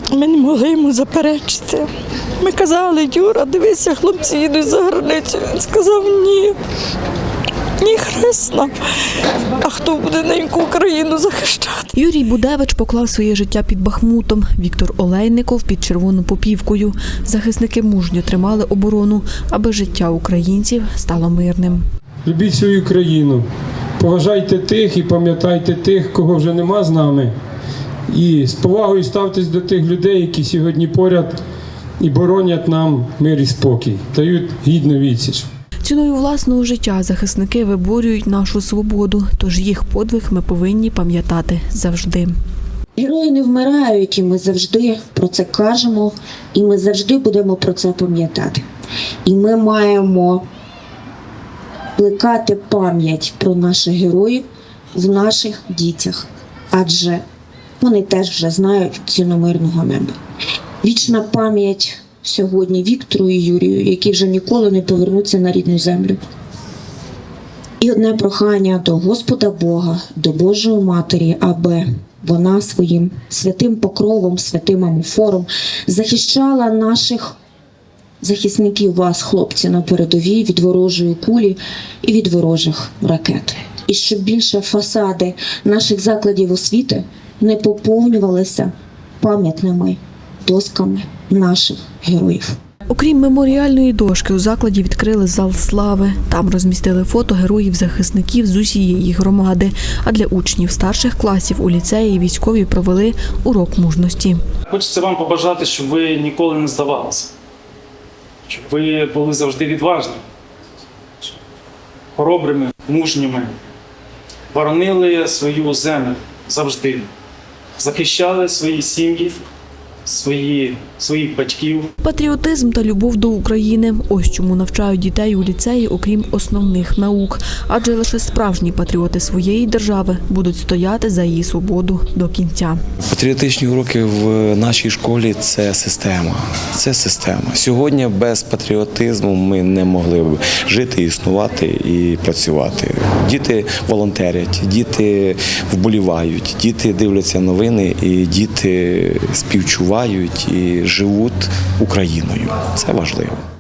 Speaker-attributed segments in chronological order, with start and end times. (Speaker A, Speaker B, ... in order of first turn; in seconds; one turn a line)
Speaker A: 0.1-1.9
Speaker A: 2.4-6.5
Speaker A: 7.8-8.7
Speaker A: 9.6-11.9
Speaker B: 11.9-21.8
Speaker C: 22.2-23.5
Speaker C: 24.0-27.3
Speaker C: 28.1-31.4
Speaker C: 32.0-35.5
Speaker B: 35.8-42.3
Speaker D: 43.0-48.6
Speaker D: 49.2-50.5
Speaker D: 52.0-57.2
Speaker D: 57.8-60.2
Speaker D: 60.8-66.2
Speaker D: 67.8-77.4
Speaker D: 78.2-92.5
Speaker B: 92.9-104.4
Speaker E: 104.7-107.3
Speaker E: 108.5-110.2
Speaker E: 112.2-113.6
Speaker E: 114.5-117.1
Speaker E: 117.8-119.4
Speaker E: 120.1-121.9
Speaker B: 122.0-132.8
Speaker F: 133.0-153.4